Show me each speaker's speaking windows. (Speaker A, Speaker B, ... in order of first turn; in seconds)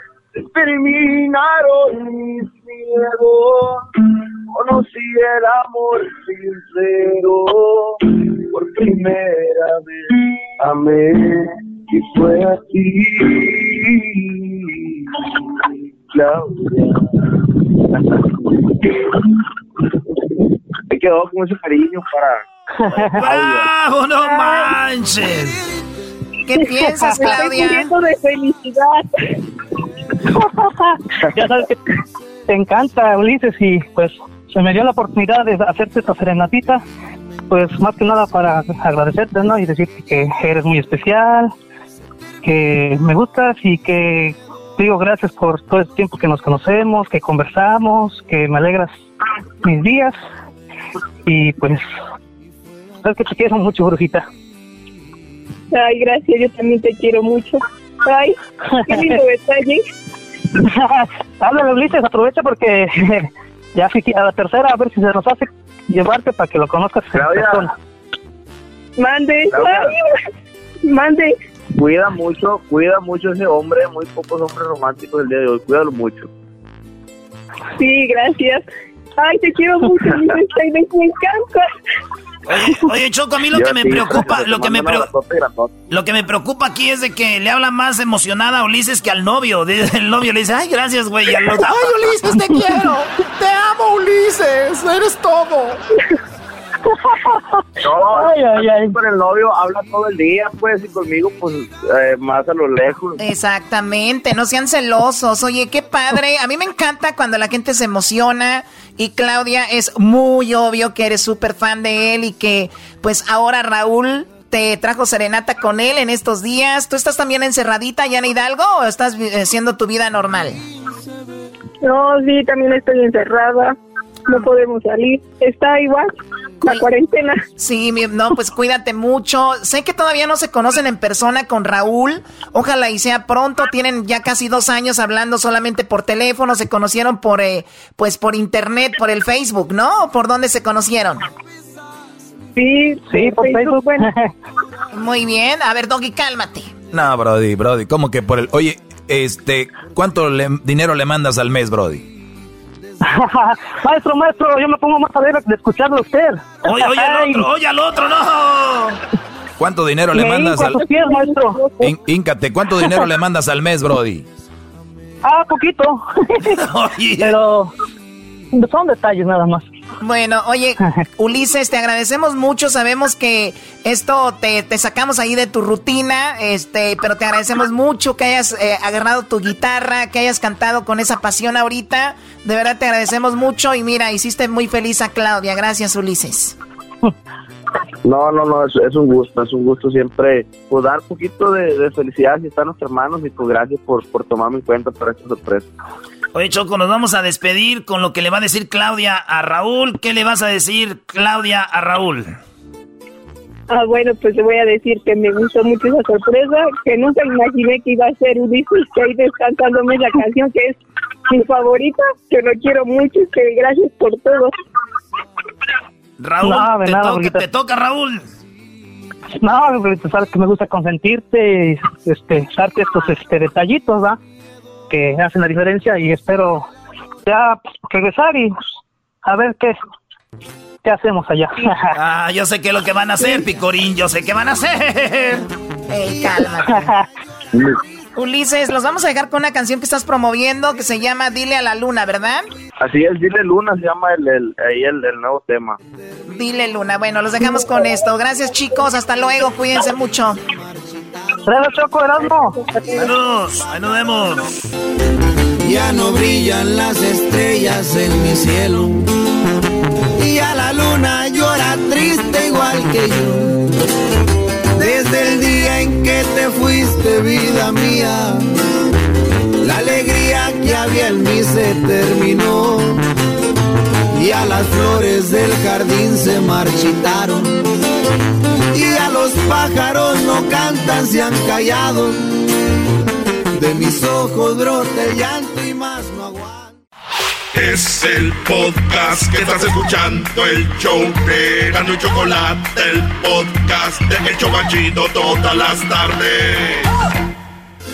Speaker A: 20.9-22.3, 23.2-23.5, 67.1-67.6, 71.8-76.3, 83.5-85.7, 97.9-103.2, 188.1-195.7, 242.8-245.7
Speaker B: 23.1-25.6, 82.5-85.1, 85.9-92.1, 156.6-159.0, 166.5-167.4, 196.3-202.4, 216.2-218.3, 231.9-235.4, 252.9-254.7
Speaker C: 26.5-27.9, 91.7-95.8, 103.2-120.6, 127.6-141.2, 144.9-146.7, 170.0-186.6, 235.9-236.9, 238.2-242.4, 246.3-250.4
Speaker D: 26.6-29.0, 55.7-58.4, 58.9-59.8, 69.0-69.9, 70.8-71.3, 77.8-78.6, 79.2-81.6, 121.8-126.1, 126.6-127.4, 142.6-144.1, 161.0-161.9, 203.7-210.8, 211.3-214.5
Speaker E: 31.4-31.8, 32.5-36.8, 37.5-41.5, 42.4-48.9, 49.6-50.2, 51.3-51.9, 53.0-54.3, 58.8-59.2, 60.8-67.7, 143.1-144.3, 153.0-157.4, 160.1-161.7, 165.2-166.0, 167.2-167.7, 168.5-169.6, 216.4-217.4, 219.4-224.2, 224.9-226.7, 227.3-228.6, 229.2-229.8, 230.8-231.9, 251.5-252.6
Speaker F: 146.9-152.1, 159.6-160.9, 161.8-164.3
Speaker G: 255.6-259.0, 260.2-263.6, 264.8-268.5, 269.6-273.0, 274.1-277.6, 278.7-282.2, 283.5-286.7
Speaker H: 287.5-296.9